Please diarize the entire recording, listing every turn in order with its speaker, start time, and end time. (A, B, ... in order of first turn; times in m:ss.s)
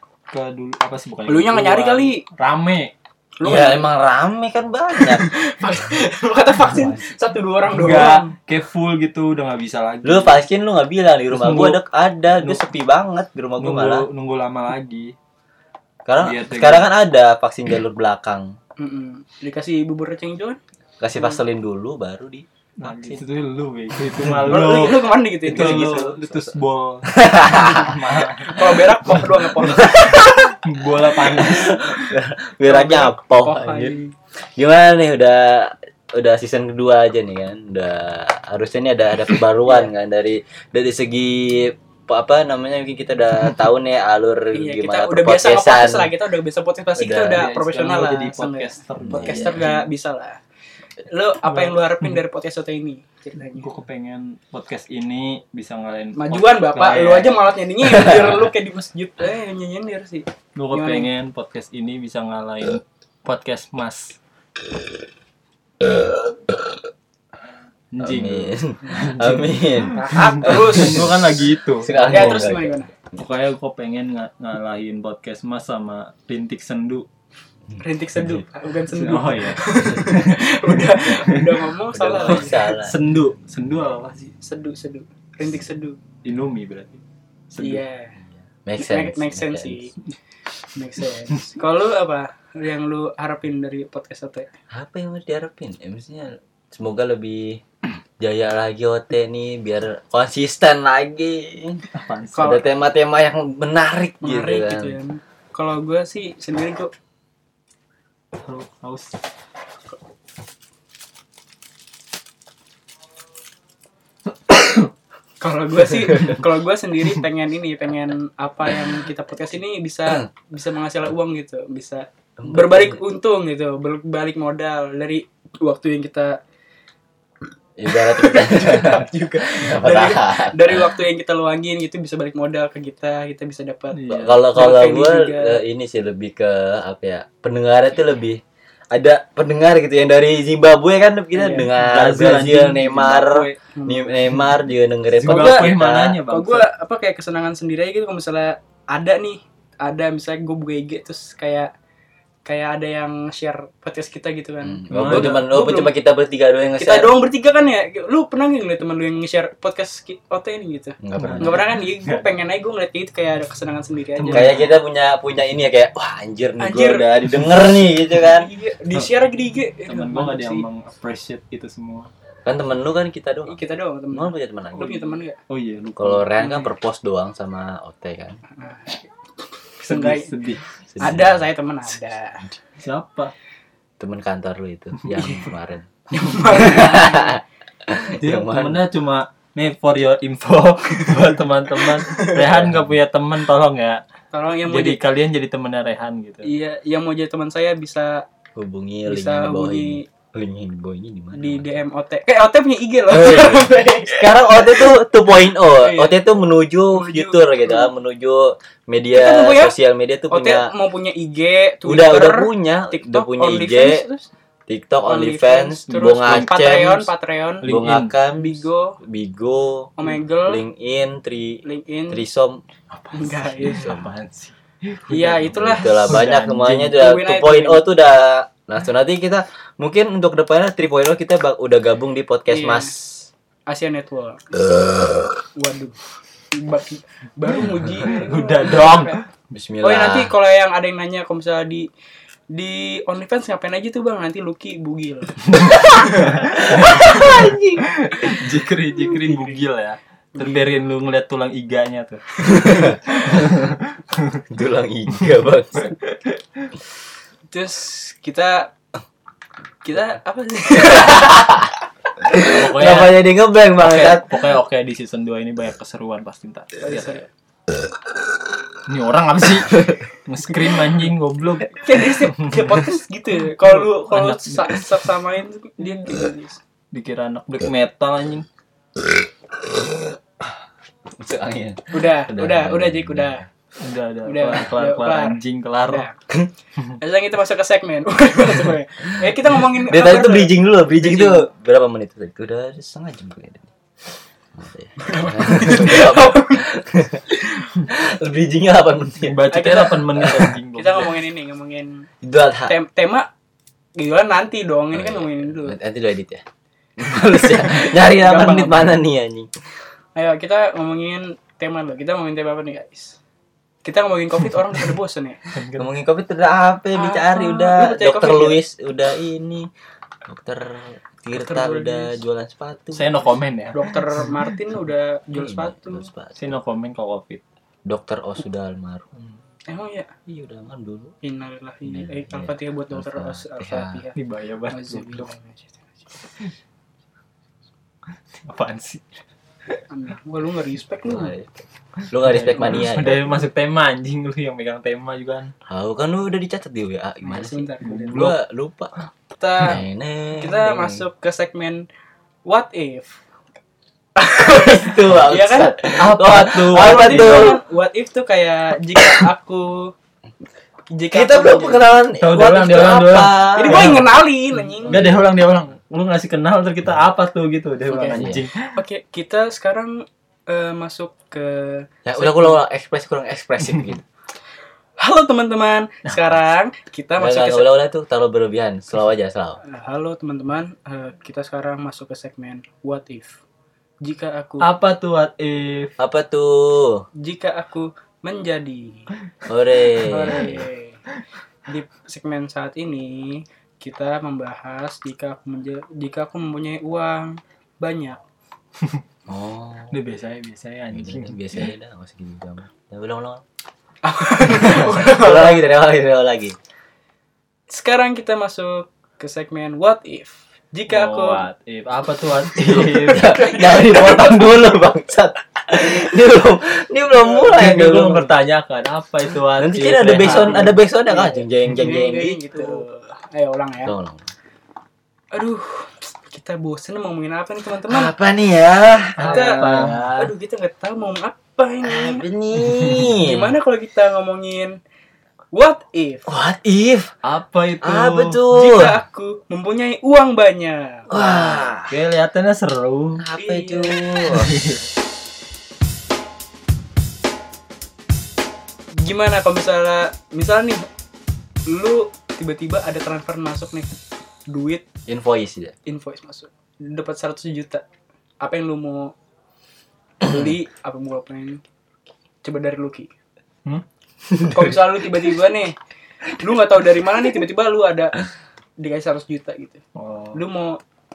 0:00.3-0:02.9 A
0:01.3-0:02.2 B
0:03.4-0:03.8 B
0:03.4-0:05.3 C
0:05.0-0:08.3 B
0:07.7-0:10.4 A
0:10.0-0:14.0 C
0:11.3-0:11.8 A
0:12.3-0:12.6 A
0:13.6-0:15.1 A
0:16.0-0:18.6 C
0:16.2-0:16.9 A
0:18.8-0:20.6 B
0:21.0-0:23.2 C
0:22.8-0:29.3 A
0:24.2-0:24.8 C
0:24.5-0:26.5 B
0:25.5-0:26.1 C
0:27.1-0:28.0 C
0:28.4-0:30.5 B
0:29.6-0:30.6 C
0:30.6-0:31.8 A
0:31.2-0:46.1 C
0:32.6-0:34.1 B
0:39.6-0:39.9 B
0:44.5-0:50.4 B
0:47.0-0:49.8 A
0:49.0-0:49.7 C
0:51.1-0:53.7 B
0:51.4-0:52.2 A
0:53.5-0:57.5 A
0:56.1-1:01.1 B
1:00.5-1:04.2 A
1:07.9-1:12.4 A
1:08.0-1:11.2 C
1:09.9-1:11.0 B
1:11.8-1:12.7 C
1:12.0-1:12.9 B
1:13.1-1:17.0 A
1:17.8-1:22.6 B
1:18.9-1:21.7 A
1:21.9-1:23.0 C
1:22.2-1:24.3 A
1:24.4-1:26.0 B
1:26.2-1:27.8 A
1:27.6-1:28.2 B
1:28.6-1:29.9 C
1:28.8-1:29.9 B
1:30.7-1:34.5 B
1:34.7-1:37.6 C
1:38.2-1:45.0 C
1:41.9-1:42.6 A
1:42.3-1:42.6 B
1:44.2-1:46.9 B
1:48.4-1:49.2 A
1:54.5-1:54.8 A
1:55.4-2:06.4 B
2:02.4-2:03.0 C
2:07.8-2:11.0 C
2:07.9-2:15.6 B
2:13.9-2:14.4 A
2:14.1-2:18.4 C
2:18.9-2:26.2 C
2:21.3-2:21.7 B
2:21.7-2:23.6 A
2:23.8-2:24.2 B
2:25.2-2:26.7 A
2:25.2-2:25.8 B
2:26.3-2:31.7 B
2:32.4-2:35.9 B
2:34.6-2:37.1 C
2:34.9-2:35.5 A
2:36.8-2:44.6 B
2:41.0-2:41.6 C
2:41.2-2:42.3 A
2:44.2-2:44.7 A
2:44.3-2:48.5 C
2:46.6-2:47.1 B
2:48.2-2:50.6 B
2:49.8-2:52.1 A
2:52.4-2:55.2 C
2:53.4-2:55.4 B
2:55.5-2:56.7 A
2:56.0-2:58.4 C
2:58.6-2:59.0 B
2:59.8-3:00.3 B
2:59.9-3:00.8 A
3:00.9-3:01.4 C
3:01.0-3:02.6 B
3:02.8-3:03.3 A
3:04.0-3:05.9 C
3:05.0-3:05.2 A
3:05.1-3:05.5 B
3:06.1-3:07.4 B
3:06.3-3:06.6 A
3:06.5-3:08.8 C
3:08.2-3:14.0 A
3:12.3-3:12.9 C
3:14.3-3:15.0 B
3:14.7-3:16.5 A
3:16.4-3:18.2 B
3:18.5-3:21.8 C
3:19.0-3:20.0 B
3:21.3-3:24.9 B
3:23.1-3:30.7 C
3:25.7-3:26.2 B
3:26.9-3:27.9 B
3:29.1-3:29.8 B
3:30.3-3:34.3 B
3:31.8-3:34.0 C
3:34.7-3:37.1 C
3:35.0-3:37.7 B
3:36.2-3:36.5 A
3:37.6-3:38.1 A
3:37.6-3:42.6 C
3:38.4-3:39.0 B
3:40.0-3:40.6 B
3:41.6-3:42.2 B
3:42.9-3:47.1 A
3:43.1-3:44.1 B
3:43.6-3:44.1 C
3:45.1-3:46.2 B
3:45.4-3:53.3 C
3:46.9-3:47.8 B
3:52.5-3:52.9 B
3:53.7-3:54.4 B
3:55.5-3:56.0 B
3:56.5-3:59.2 B
3:58.0-3:59.2 A
3:59.5-4:00.3 C
3:59.8-4:01.9 B
4:02.5-4:07.5 B
4:05.5-4:14.4 A
4:06.7-4:07.8 C
4:08.2-4:08.4 B
4:09.0-4:09.6 B
4:10.3-4:10.7 B
4:12.5-4:13.4 C
4:14.5-4:16.0 C
4:16.0-4:16.7 A
4:17.5-4:18.7 B
4:19.8-4:21.6 B
4:20.9-4:21.6 C
4:22.2-4:24.4 C
4:22.4-4:27.2 A
4:26.8-4:27.2 B
4:28.9-4:32.8 A
4:31.7-4:36.6 B
4:33.5-4:35.0 A
4:35.8-4:36.1 A
4:36.9-4:38.4 A
4:41.1-4:43.4 C
4:41.9-4:43.4 B
4:43.8-4:46.0 A
4:44.2-4:46.2 B
4:47.0-4:51.5 B
4:49.7-4:53.7 C
4:54.5-4:57.3 C
4:55.0-4:56.7 B
4:57.9-4:59.5 C
4:59.2-5:01.2 A
4:59.5-5:02.0 B
5:00.2-5:00.5 C
5:02.2-5:02.7 C
5:02.7-5:03.3 B
5:04.0-5:05.8 B
5:04.9-5:06.4 C
5:07.0-5:09.5 C
5:07.3-5:08.9 B
5:10.2-5:13.2 B
5:13.8-5:15.4 B
5:15.5-5:15.9 A
5:15.8-5:19.7 C
5:16.9-5:18.6 B
5:20.2-5:23.1 C
5:21.3-5:22.2 B
5:22.9-5:24.6 A
5:23.7-5:26.1 B
5:25.3-5:26.6 C
5:26.4-5:27.4 A
5:27.8-5:29.0 C
5:29.7-5:30.1 B
5:30.3-5:31.1 C
5:31.2-5:34.2 B
5:31.8-5:34.0 C
5:34.1-5:35.3 A
5:34.7-5:36.0 B
5:38.4-5:39.1 A
5:39.9-5:41.3 B
5:41.0-5:43.4 C
5:42.0-5:45.5 A
5:45.6-5:48.9 C
5:47.2-5:48.2 B
5:47.8-5:48.4 A
5:49.4-5:49.8 B
5:49.6-5:51.0 C
5:50.4-5:51.8 B
5:52.4-5:53.2 B
5:54.2-5:59.9 B
5:54.4-5:57.6 C
5:56.0-5:57.6 A
6:00.9-6:02.0 B
6:01.1-6:04.1 C
6:02.2-6:04.1 A
6:03.5-6:05.0 B
6:04.8-6:08.8 A
6:04.8-6:05.2 C
6:07.9-6:12.6 B
6:08.1-6:08.4 C
6:12.0-6:14.0 C
6:15.0-6:17.7 B
6:17.2-6:19.6 C
6:19.6-6:23.4 B
6:24.0-6:24.7 B
6:24.6-6:26.0 A
6:26.0-6:27.0 C
6:27.2-6:29.1 B
6:29.4-6:30.7 C
6:30.0-6:31.0 B
6:31.7-6:38.2 B
6:39.3-6:40.0 C
6:39.9-6:41.4 A
6:40.9-6:43.4 C
6:44.0-6:45.6 B
6:44.4-6:46.6 C
6:47.7-6:51.4 B
6:50.9-6:53.6 A
6:52.5-6:58.4 C
6:53.2-6:54.3 B
6:57.3-7:00.8 A
6:59.5-7:02.8 C
7:00.2-7:03.9 B
7:03.8-7:04.3 C
7:05.3-7:08.1 B
7:07.9-7:10.3 C
7:09.2-7:10.2 A
7:09.2-7:12.2 B
7:11.8-7:13.5 C
7:13.2-7:14.8 B
7:15.5-7:16.3 B
7:16.3-7:17.1 C
7:17.2-7:18.4 A
7:17.8-7:19.0 C
7:18.5-7:21.5 B
7:21.1-7:21.9 C
7:21.9-7:23.2 A
7:23.2-7:24.6 C
7:23.4-7:24.0 B
7:24.3-7:24.8 A
7:29.0-7:30.8 B
7:31.7-7:33.9 B
7:34.5-7:34.8 B
7:35.1-7:35.8 C
7:35.8-7:37.8 B
7:38.4-7:39.1 B
7:40.2-7:41.6 B
7:42.4-7:43.1 B
7:44.4-7:45.8 B
7:46.4-7:48.2 B
7:48.8-7:49.8 B
7:49.9-7:50.4 A
7:50.3-7:50.8 B